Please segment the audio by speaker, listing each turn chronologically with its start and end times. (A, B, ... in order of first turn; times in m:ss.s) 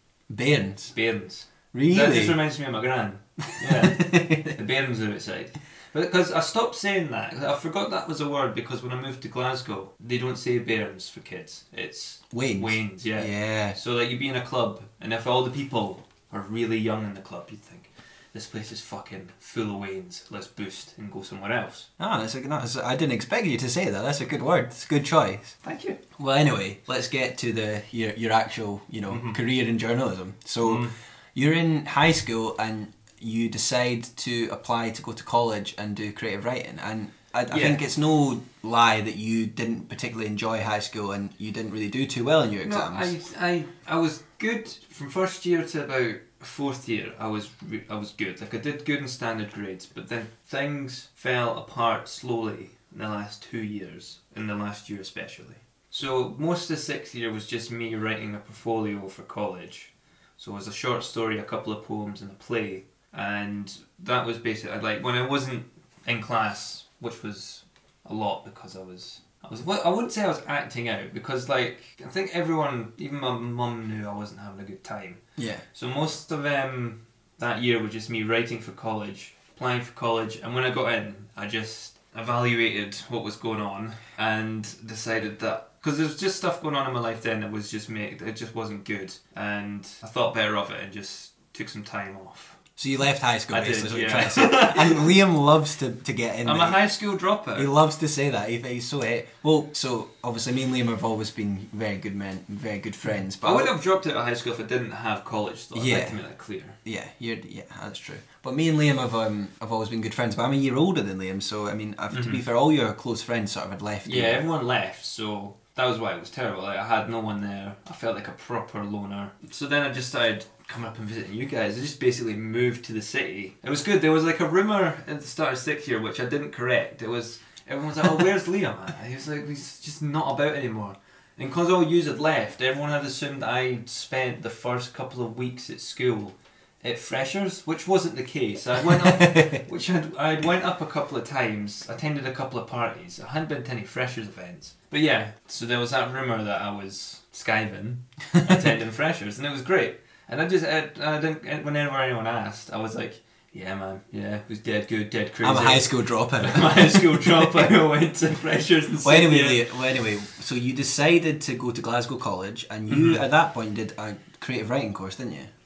0:00.3-0:00.9 A
0:00.9-0:21.9 B
0:01.7-0:02.4 A
0:03.6-0:04.6 A
0:12.3-0:13.8 A
0:22.0-0:25.6 A
0:25.6-0:26.0 B
0:26.2-0:43.1 A
0:29.1-0:29.4 B
0:30.6-0:30.9 B
0:37.5-0:37.8 B
0:42.6-1:15.2 B
1:15.4-1:15.6 A
1:15.8-1:32.6 B
1:32.8-1:36.8 A
1:33.5-1:35.2 B
1:36.4-1:37.7 B
1:37.6-1:43.7 A
1:43.4-1:46.8 B
1:45.7-1:46.2 A
1:46.8-1:54.4 A
1:52.1-1:52.4 B
1:54.0-2:39.6 B
2:19.0-2:19.6 A
2:28.4-2:28.6 A
2:35.4-2:37.7 A
2:39.0-2:45.5 A
2:42.9-2:43.2 B